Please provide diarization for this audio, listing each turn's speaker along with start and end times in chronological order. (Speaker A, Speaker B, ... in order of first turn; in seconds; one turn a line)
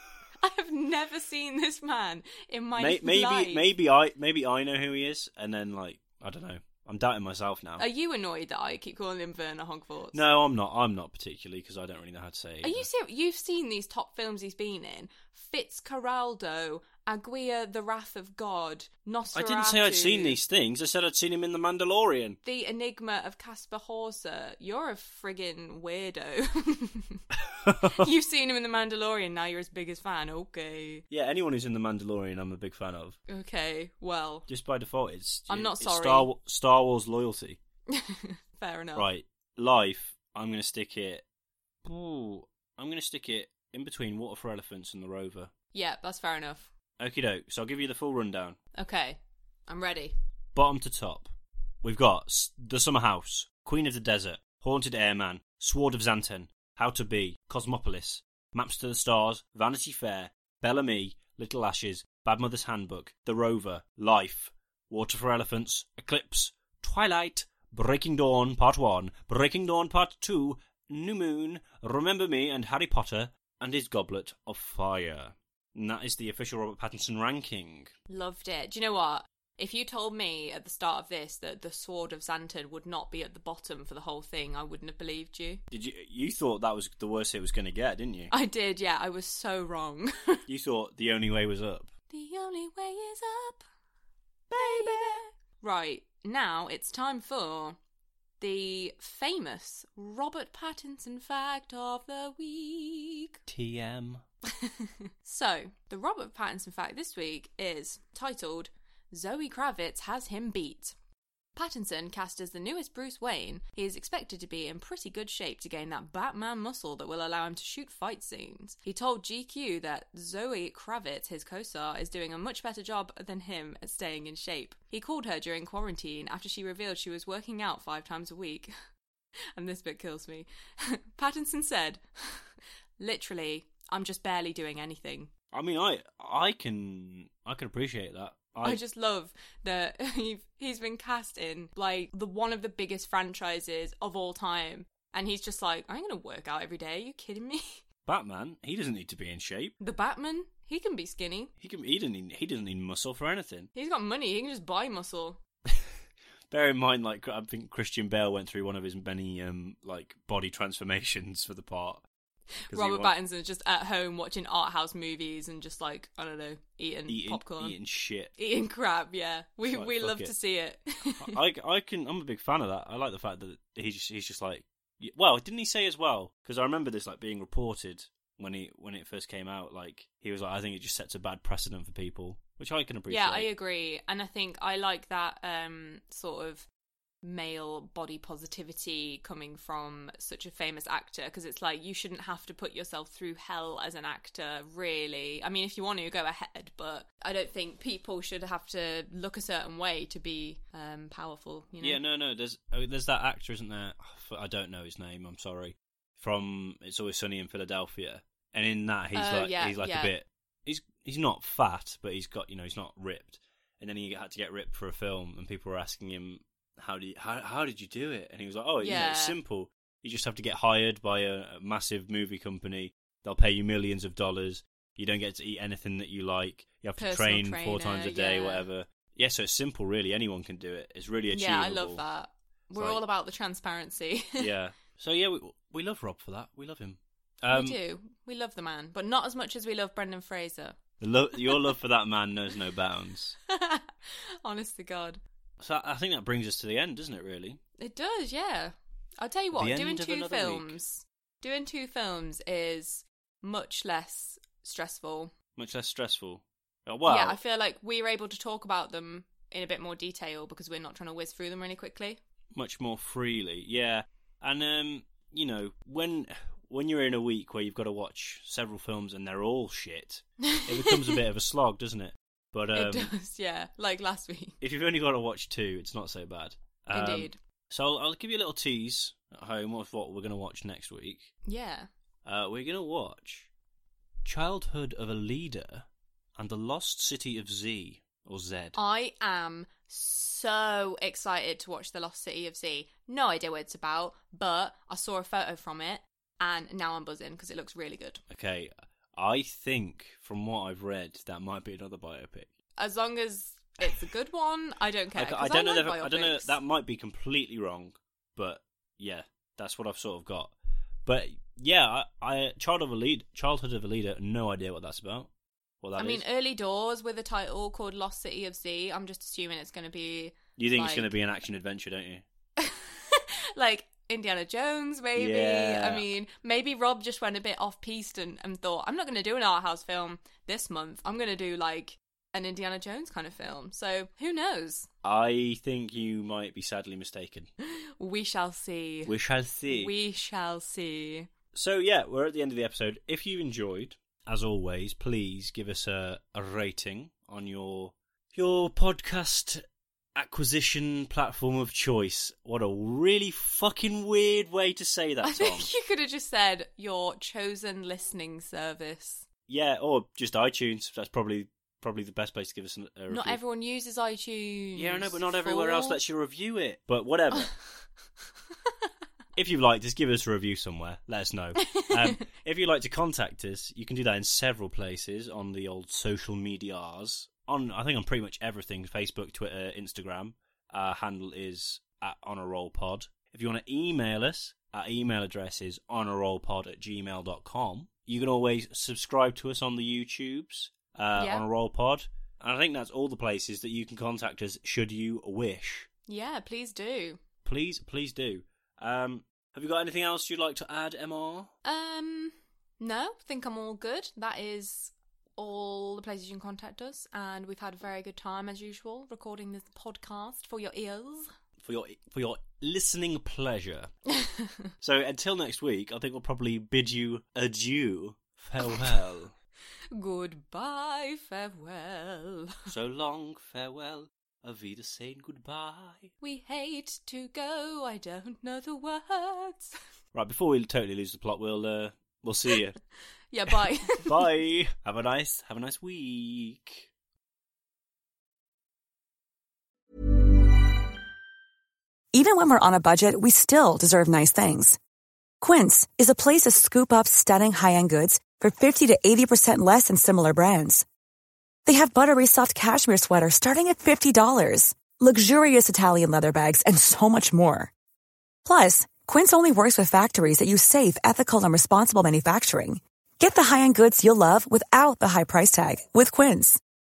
Speaker A: 0.4-3.7
Speaker B: 2.8-7.8
Speaker A: 7.8-10.2
Speaker B: 10.1-12.9
Speaker A: 12.6-20.4
Speaker B: 19.3-22.4
Speaker A: 22.4-27.2
Speaker B: 27.5-28.1
Speaker A: 27.8-31.0
Speaker B: 31.1-33.2
Speaker A: 33.3-34.5
Speaker B: 34.5-37.6
Speaker A: 35.5-36.3
Speaker A: 37.9-39.1
Speaker B: 38.9-41.2
Speaker B: 41.8-45.5
Speaker A: 45.7-46.7
Speaker B: 47.0-48.6
Speaker A: 48.8-50.1
Speaker B: 50.5-51.3
Speaker B: 51.8-77.9
Speaker A: 78.1-85.6
Speaker B: 85.7-88.3
Speaker A: 88.3-90.4
Speaker B: 90.5-91.9
Speaker A: 92.1-93.6
Speaker A: 94.5-97.8
Speaker B: 94.5-95.1
Speaker A: 98.4-103.4
Speaker B: 103.5-104.2
Speaker A: 104.6-110.9
Speaker A: 111.5-128.7
Speaker A: 129.6-135.3
Speaker B: 135.5-138.8
Speaker A: 138.6-147.8
Speaker B: 148.0-149.7
Speaker A: 149.8-151.5
Speaker B: 151.6-153.7
Speaker A: 153.7-155.4
Speaker B: 156.5-162.0
Speaker A: 162.7-167.8
Speaker B: 162.7-163.1
Speaker B: 167.1-168.3
Speaker A: 168.4-171.4
Speaker B: 169.7-170.3
Speaker B: 171.2-183.5
Speaker A: 183.1-186.7
Speaker A: 187.2-202.0
Speaker B: 201.8-232.0
Speaker A: 209.1-210.1
Speaker A: 218.8-219.4
Speaker A: 227.0-228.7
Speaker A: 231.3-234.5
Speaker B: 232.8-233.0
Speaker B: 234.4-237.8
Speaker A: 237.5-240.8
Speaker B: 241.0-243.4
Speaker A: 241.4-241.7
Speaker A: 243.5-245.2
Speaker B: 245.6-247.6
Speaker A: 247.8-255.3
Speaker B: 249.5-250.8
Speaker B: 255.6-257.4
Speaker A: 257.0-262.2
Speaker B: 262.5-273.1
Speaker A: 270.4-271.2
Speaker A: 272.7-274.6
Speaker B: 274.6-281.3
Speaker A: 276.9-277.4
Speaker A: 281.4-281.9
Speaker B: 282.2-283.5
Speaker B: 284.2-288.8
Speaker A: 288.8-298.2
Speaker B: 298.3-302.5
Speaker A: 302.8-306.6
Speaker B: 305.1-310.5
Speaker B: 311.1-315.3
Speaker B: 315.8-316.2
Speaker A: 316.0-321.1
Speaker B: 320.6-322.2
Speaker A: 322.6-334.9
Speaker B: 325.1-326.1
Speaker B: 335.0-337.5
Speaker A: 338.0-339.1
Speaker B: 339.1-339.9
Speaker A: 339.7-341.3
Speaker B: 341.5-349.6
Speaker B: 350.1-355.7
Speaker A: 355.2-359.2
Speaker B: 359.5-363.4
Speaker A: 363.1-366.0
Speaker B: 364.7-367.5
Speaker B: 369.4-395.9
Speaker A: 371.6-372.2
Speaker A: 391.1-391.5
Speaker A: 396.1-397.2
Speaker B: 397.4-401.5
Speaker A: 401.6-411.3
Speaker B: 411.6-413.9
Speaker A: 414.2-414.6
Speaker B: 414.8-419.3
Speaker A: 419.9-422.6
Speaker B: 422.7-426.1
Speaker A: 426.2-429.8
Speaker B: 430.1-432.8
Speaker A: 433.3-434.2
Speaker B: 433.5-436.9
Speaker C: 442.1-444.8
Speaker C: 445.4-450.8
Speaker C: 451.6-457.7
Speaker C: 458.4-466.6